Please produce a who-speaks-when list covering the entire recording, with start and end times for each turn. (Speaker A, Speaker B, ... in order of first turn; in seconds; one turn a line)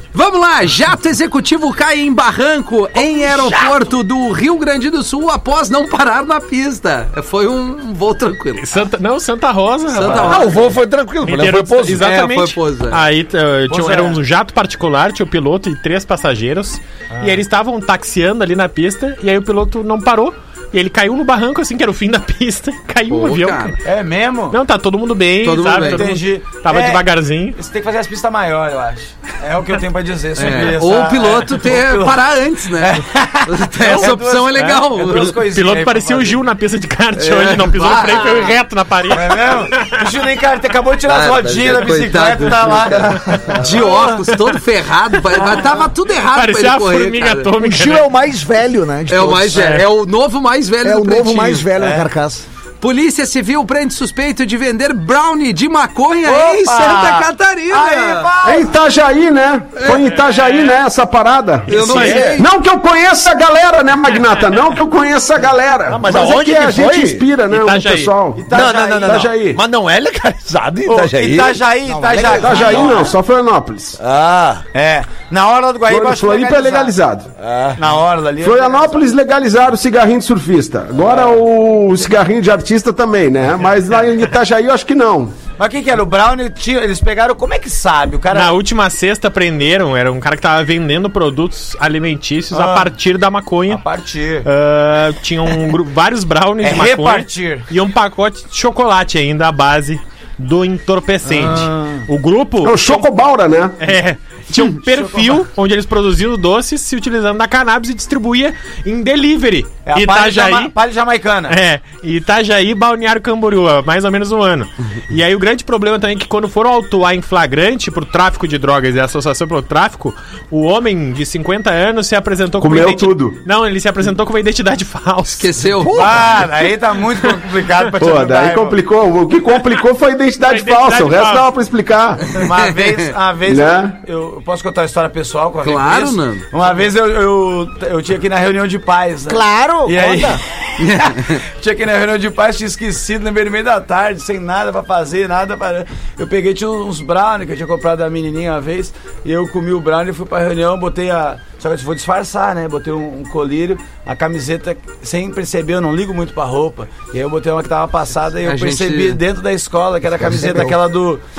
Speaker A: 0.1-8.6
Speaker B: 8.6-10.5
Speaker A: 9.9-10.7
Speaker C: 10.1-12.1
Speaker B: 11.2-23.8
Speaker A: 12.0-13.0
Speaker D: 13.7-14.2
Speaker A: 23.1-23.8
Speaker D: 23.8-24.6
Speaker B: 24.5-27.6
Speaker A: 25.4-26.1
Speaker D: 25.8-27.0
Speaker D: 27.6-32.3
Speaker A: 30.4-35.4
Speaker D: 32.8-36.4
Speaker B: 35.4-40.0
Speaker A: 37.2-38.5
Speaker D: 39.1-44.2
Speaker A: 41.1-47.5
Speaker B: 46.3-48.1
Speaker E: 47.6-49.8
Speaker A: 49.1-51.6
Speaker E: 50.8-52.4
Speaker D: 51.8-52.1
Speaker A: 52.8-58.3
Speaker D: 56.2-58.7
Speaker F: 58.4-69.6
Speaker A: 61.7-62.5
Speaker C: 61.7-62.4
Speaker C: 65.9-67.3
Speaker B: 67.5-68.2
Speaker D: 68.4-69.3
Speaker C: 68.5-71.6
Speaker D: 70.9-73.0
Speaker E: 71.9-72.7
Speaker F: 72.3-74.0
Speaker C: 72.6-73.0
Speaker C: 74.0-74.6
Speaker D: 74.7-77.0
Speaker F: 75.9-77.3
Speaker C: 77.4-77.8
Speaker D: 77.8-79.1
Speaker F: 78.4-85.3
Speaker D: 85.6-88.6
Speaker B: 88.3-93.8
Speaker D: 92.5-92.9
Speaker D: 93.7-94.5
Speaker B: 94.5-103.0
Speaker D: 96.6-97.7
Speaker D: 101.2-102.0
Speaker F: 102.6-103.8
Speaker B: 103.8-110.7
Speaker D: 104.7-105.4
Speaker D: 109.9-111.6
Speaker B: 111.5-126.4
Speaker F: 122.6-123.4
Speaker A: 125.3-126.3
Speaker D: 125.9-128.8
Speaker F: 128.0-132.4
Speaker B: 130.4-131.5
Speaker D: 132.3-140.4
Speaker A: 132.6-133.0
Speaker F: 133.5-134.0
Speaker A: 135.6-136.4
Speaker E: 139.3-140.4
Speaker A: 140.8-141.4
Speaker D: 141.3-161.2
Speaker A: 158.5-159.2
Speaker E: 160.3-160.7